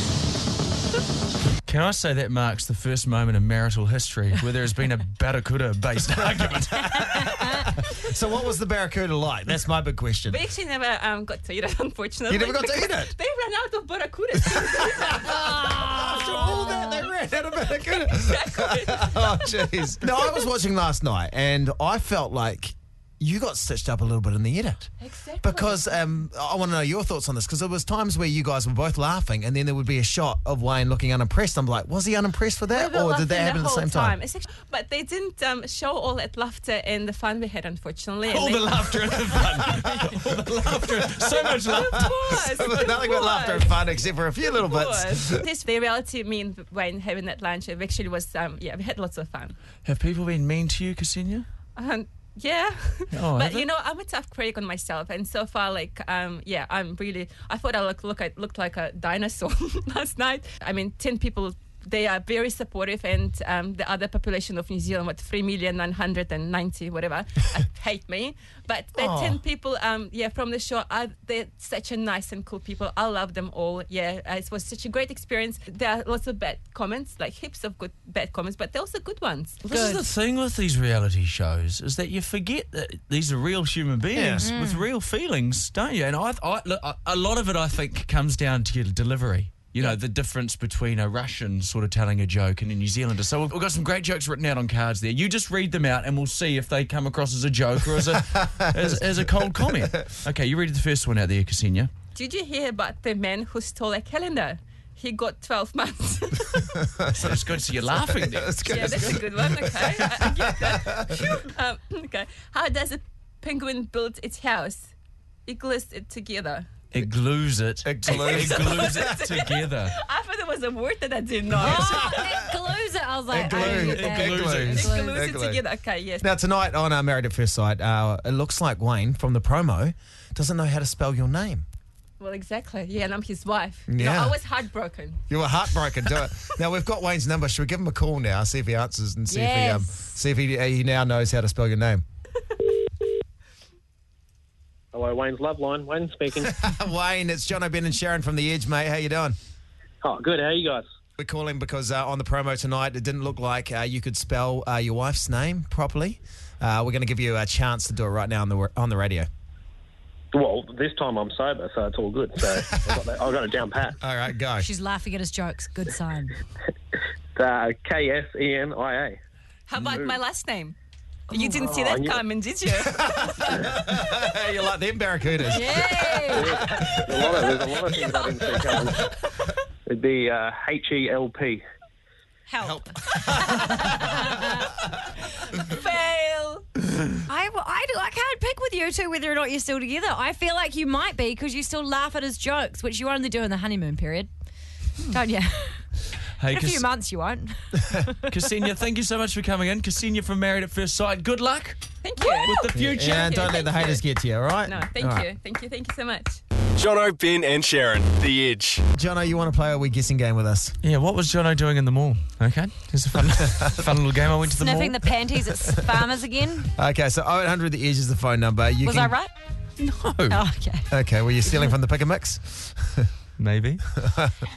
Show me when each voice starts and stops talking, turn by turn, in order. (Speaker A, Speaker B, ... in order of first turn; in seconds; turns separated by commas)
Speaker A: 1.6-7.4, Speaker B: 6.4-10.4, Speaker C: 10.3-17.0, Speaker B: 12.3-13.1, Speaker B: 14.4-24.9, Speaker D: 15.3-16.9, Speaker C: 17.8-20.3, Speaker C: 25.0-26.0, Speaker B: 25.4-34.1, Speaker C: 32.7-39.2, Speaker A: 38.3-42.4, Speaker B: 39.6-40.0, Speaker B: 41.3-45.4, Speaker C: 41.6-43.9, Speaker C: 44.5-49.6, Speaker A: 49.8-51.5, Speaker C: 51.8-79.6, Speaker A: 53.1-53.7, Speaker B: 68.9-69.4, Speaker A: 79.6-101.9, Speaker D: 79.7-80.0, Speaker B: 84.1-84.5, Speaker D: 84.4-84.8, Speaker B: 98.0-100.2, Speaker C: 102.1-106.8, Speaker B: 106.7-111.2, Speaker A: 107.1-109.6, Speaker C: 108.6-114.9, Speaker C: 115.5-116.7, Speaker A: 116.9-119.9, Speaker B: 117.8-119.2, Speaker C: 118.0-122.3, Speaker B: 121.5-122.5, Speaker D: 121.6-125.1, Speaker B: 123.3-125.6, Speaker A: 123.5-124.9, Speaker C: 124.5-126.3, Speaker B: 126.2-131.6, Speaker C: 132.2-135.2, Speaker B: 133.9-134.4, Speaker B: 135.3-142.0, Speaker D: 139.3-140.2, Speaker E: 144.9-146.6, Speaker B: 146.4-149.3, Speaker E: 150.0-150.8, Speaker B: 151.2-159.3, Speaker E: 160.3-164.0, Speaker B: 164.0-164.7, Speaker D: 164.6-166.3, Speaker E: 167.3-169.2, Speaker C: 169.7-170.8, Speaker E: 169.8-170.1, Speaker C: 171.3-173.6, Speaker D: 171.3-171.7, Speaker E: 171.6-172.2, Speaker B: 172.8-177.5, Speaker D: 175.5-176.6, Speaker E: 176.3-179.1, Speaker E: 179.9-181.6, Speaker D: 182.5-184.7, Speaker B: 182.6-184.4, Speaker C: 185.3-186.6, Speaker D: 187.3-194.3, Speaker D: 195.1-195.9, Speaker A: 196.4-196.8, Speaker D: 196.5-198.3, Speaker A: 198.3-201.8, Speaker C: 202.0-204.0, Speaker D: 202.2-202.7, Speaker A: 202.4-203.4, Speaker B: 202.7-205.3, Speaker C: 204.6-206.4, Speaker F: 206.8-208.8, Speaker B: 208.9-210.7, Speaker A: 210.8-215.1, Speaker B: 213.4-213.8, Speaker D: 214.6-216.7, Speaker B: 216.8-219.1, Speaker D: 218.8-219.3, Speaker A: 219.8-220.4, Speaker D: 220.3-220.9, Speaker B: 220.9-223.1, Speaker A: 223.4-223.8, Speaker B: 223.9-224.3